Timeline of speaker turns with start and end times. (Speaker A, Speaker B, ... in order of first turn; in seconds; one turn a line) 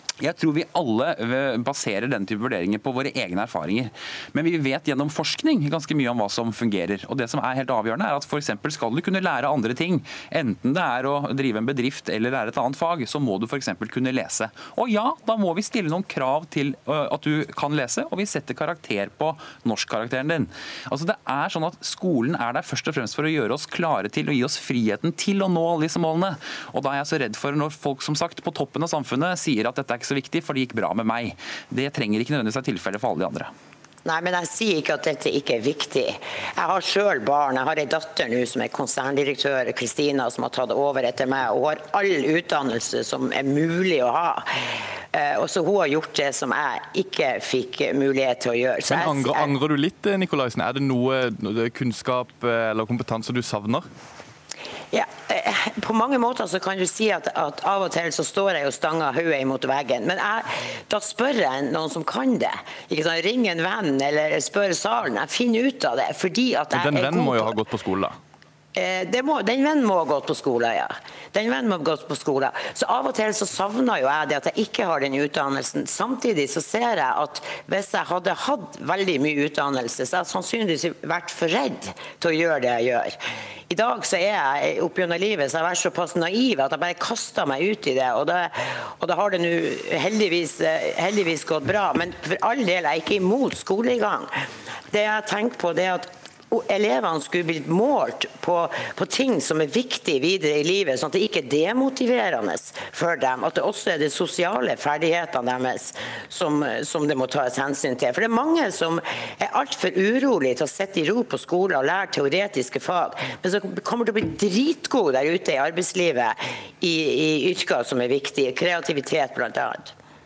Speaker A: 0.2-33.5
Speaker B: 34.0-49.5
Speaker C: 48.9-53.9
Speaker B: 54.9-67.5
Speaker C: 66.7-68.2
Speaker B: 68.8-83.2
Speaker B: 83.7-94.3
Speaker B: 94.9-119.9